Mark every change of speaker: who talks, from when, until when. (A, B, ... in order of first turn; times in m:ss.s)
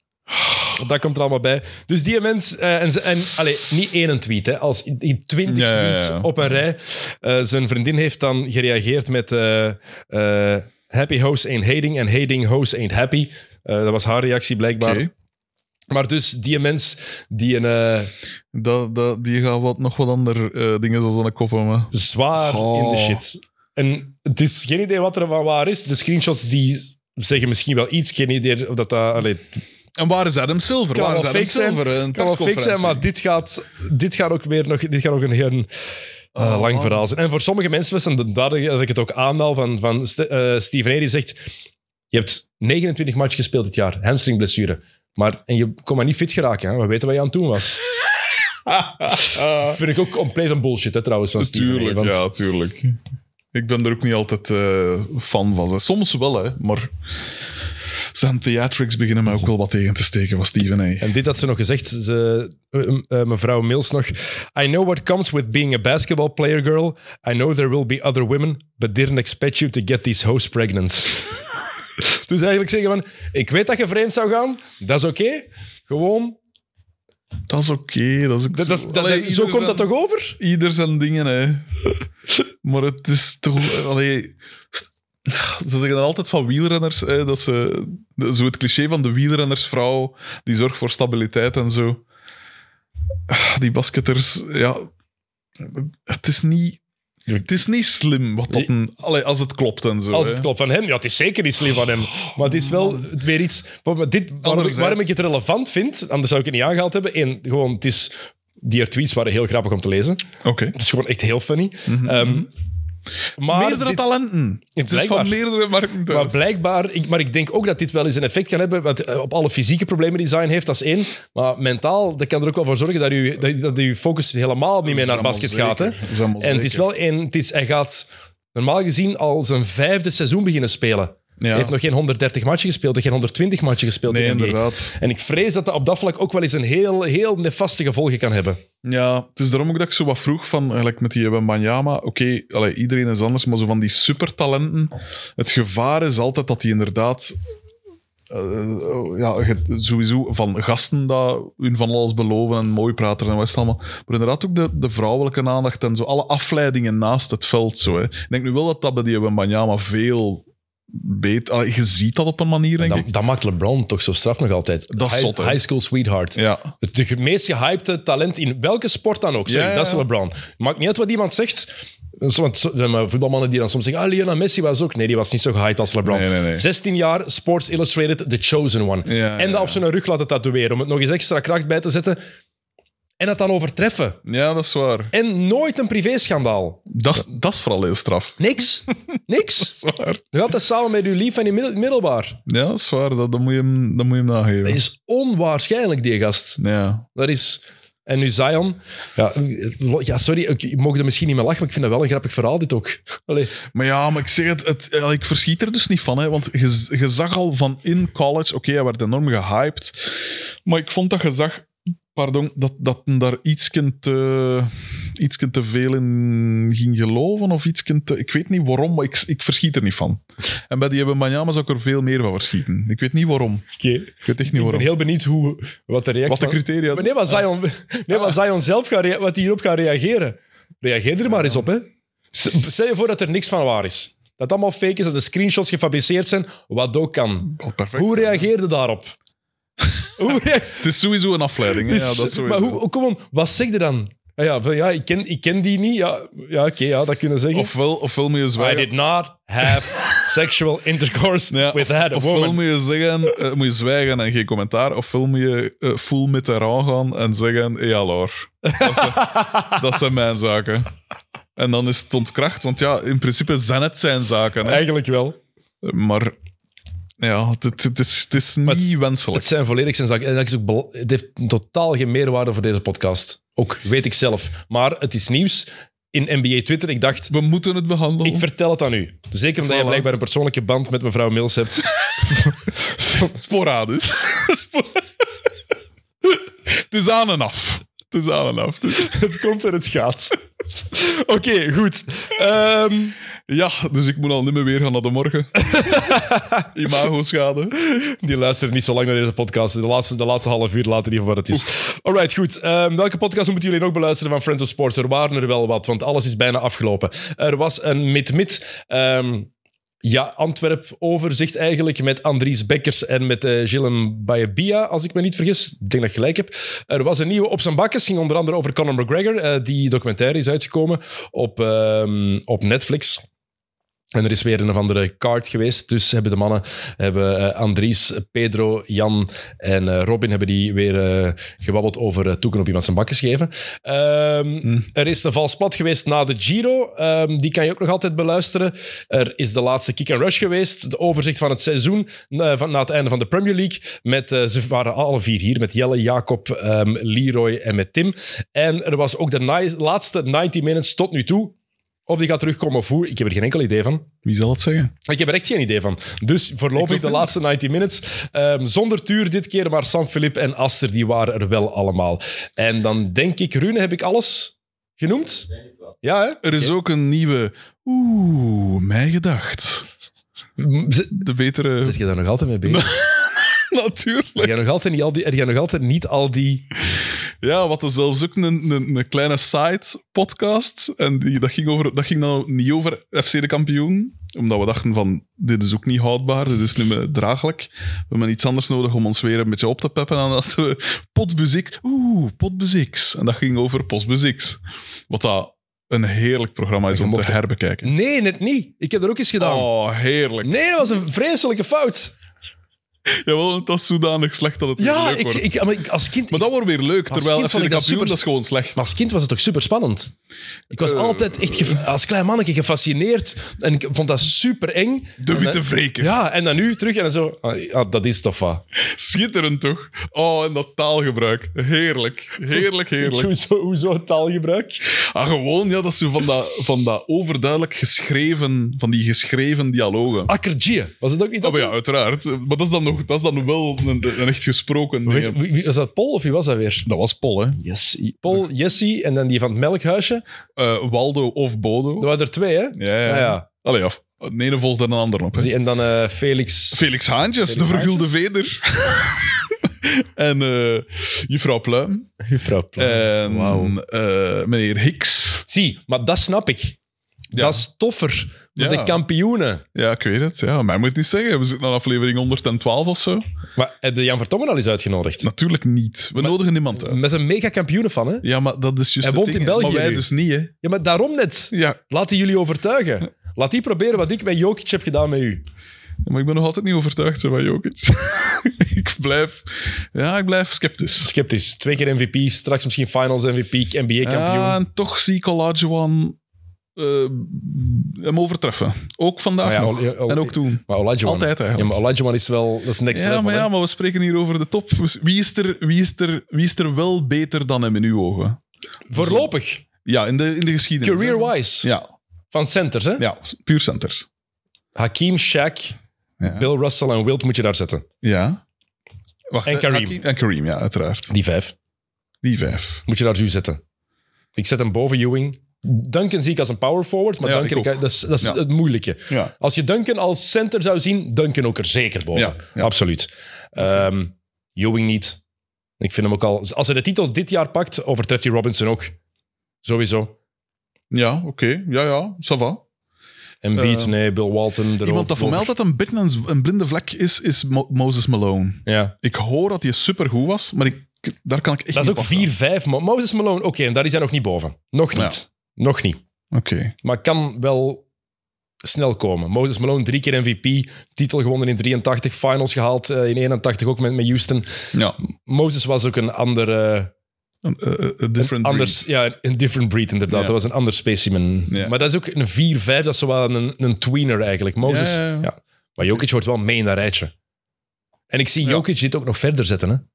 0:00.7-0:15.1 A
0:05.5-0:06.3 B
0:14.8-0:15.1 B
0:15.9-0:18.1 A
0:18.5-0:23.2 B
0:21.9-0:29.6 A
0:30.0-0:33.1 B
0:30.9-0:35.7 A
0:36.4-0:37.1 B
0:36.4-0:41.4 A
0:42.1-0:47.8 A
0:48.7-0:49.8 B
0:49.4-0:52.3 A
0:51.4-0:53.0 B
0:53.5-0:56.9 B
0:58.1-1:01.1 B
1:01.0-1:11.3 A
1:12.0-1:16.4 A
1:17.5-1:21.7 B
1:18.5-1:20.4 A
1:22.6-1:32.0 B
1:33.3-1:34.9 B
1:35.6-1:36.8 B
1:37.4-1:40.5 B
1:40.1-1:52.5 A
1:42.4-1:43.1 B
1:44.4-1:45.1 B
1:50.4-1:50.8 B
1:51.9-1:52.5 B
1:53.4-1:54.1 A
1:53.5-1:56.4 B
1:54.8-1:55.4 A
1:56.1-2:18.6 A
2:04.8-2:06.9 B
2:11.4-2:11.7 B
2:14.1-2:14.9 B
2:18.8-2:27.4 B
2:28.3-2:43.1 B
2:42.8-3:02.2 A
2:44.9-2:45.6 B
2:46.4-2:46.7 B
2:49.5-2:50.1 B
2:56.0-2:56.7 B
2:59.1-2:59.8 B
3:03.2-3:04.2 A
3:04.2-3:05.1 B
3:05.1-3:06.9 A
3:06.9-3:08.5 B
3:08.4-3:09.8 A
3:09.6-3:10.2 B
3:10.3-3:12.4 A
3:12.5-3:14.8 B
3:14.6-3:16.6 A
3:16.6-3:17.1 B
3:17.2-3:23.6 A
3:23.7-3:43.6 B
3:43.8-3:59.2 A
3:44.2-3:44.9 B
3:46.3-3:47.4 B
3:57.5-3:58.5 B
4:00.2-4:00.8 A
4:00.8-4:02.8 B
4:01.7-4:07.7 A
4:07.5-4:08.9 B
4:08.6-4:12.6 A
4:09.6-4:10.0 B
4:11.5-4:20.9 B
4:18.6-4:19.8 A
4:21.6-4:24.8 B
4:24.6-4:25.4 A
4:25.8-4:26.4 B
4:27.2-4:29.5 B
4:28.6-4:37.3 A
4:37.3-4:38.5 B
4:38.2-4:43.3 A
4:39.6-4:40.1 B
4:43.0-4:45.0 B
4:46.7-4:49.2 B
4:48.9-4:50.4 A
4:50.9-4:53.2 A
4:53.5-4:56.2 B
4:55.7-4:56.7 A
4:56.7-4:57.8 B
4:57.8-5:09.5 A
5:10.0-5:23.2 A
5:24.2-5:51.6 A
5:52.1-5:54.1 A
5:54.2-5:54.9 B
5:55.1-6:05.5 A
5:56.8-5:57.3 B
6:06.0-6:06.7 A
6:06.4-6:09.9 B
6:10.6-6:11.2 A
6:11.1-6:12.0 B
6:11.8-6:12.8 A
6:12.6-6:14.6 B
6:14.4-6:16.7 A
6:17.4-6:37.9 B
6:36.9-6:39.7 A
6:39.4-6:40.9 B
6:40.4-6:42.1 A
6:43.1-6:45.6 B
6:44.8-6:46.5 A
6:46.3-6:48.9 B
6:47.1-6:48.2 A
6:48.8-6:50.1 A
6:50.7-6:58.6 A
6:50.7-6:51.8 B
6:55.2-6:56.2 B
6:58.8-7:03.3 B
7:03.0-7:04.8 A
7:04.9-7:10.3 B
7:10.3-7:11.8 A
7:11.4-7:15.4 B
7:15.1-7:16.9 A
7:16.8-7:17.6 B
7:17.6-7:20.2 A
7:20.6-7:22.1 B
7:22.0-7:23.4 A
7:22.8-7:25.5 B
7:25.4-7:28.1 A
7:26.7-7:32.1 B
7:32.2-7:33.8 A
7:32.8-7:35.4 B
7:35.5-7:36.8 A
7:37.3-7:39.6 A
7:37.4-7:37.6 B
7:38.6-7:39.0 B
7:39.8-7:43.2 B
7:43.6-7:45.3 A
7:45.2-7:47.1 B
7:46.2-7:48.3 A
7:48.2-7:50.5 B
7:49.0-7:50.1 A
7:50.6-7:55.4 A
7:51.5-7:51.8 B
7:56.0-8:01.1 B
8:01.0-8:04.6 A
8:04.0-8:06.2 B
8:06.8-8:11.7 B
8:09.4-8:13.5 A
8:12.9-8:18.4 B
8:18.9-8:19.6 A
8:18.9-8:19.3 B
8:19.8-8:21.8 B
8:20.8-8:21.7 A
8:22.3-8:23.1 A
8:23.0-8:24.1 B
8:24.8-8:27.9 A
8:26.2-8:26.5 B
8:28.0-8:28.4 B
8:29.3-8:31.1 B
8:29.4-8:30.0 A
8:31.1-8:31.5 A
8:32.2-8:32.8 B
8:32.9-8:33.6 A
8:34.4-8:45.2 A
8:37.2-8:38.4 B
8:42.1-8:42.7 B
8:45.8-8:49.0 A
8:49.6-8:50.2 A
8:50.9-8:52.6 B
8:53.4-8:55.5 A
8:53.6-8:53.9 B
8:54.8-9:02.3 B
8:58.7-8:59.0 A
9:01.7-9:06.0 A
9:06.3-9:06.8 B
9:06.8-9:07.8 A
9:08.6-9:14.5 A
9:15.0-9:16.9 A
9:17.4-9:18.8 B
9:18.2-9:27.1 A
9:20.1-9:20.4 B
9:21.5-9:21.8 B
9:24.6-9:25.3 B
9:28.1-9:29.8 A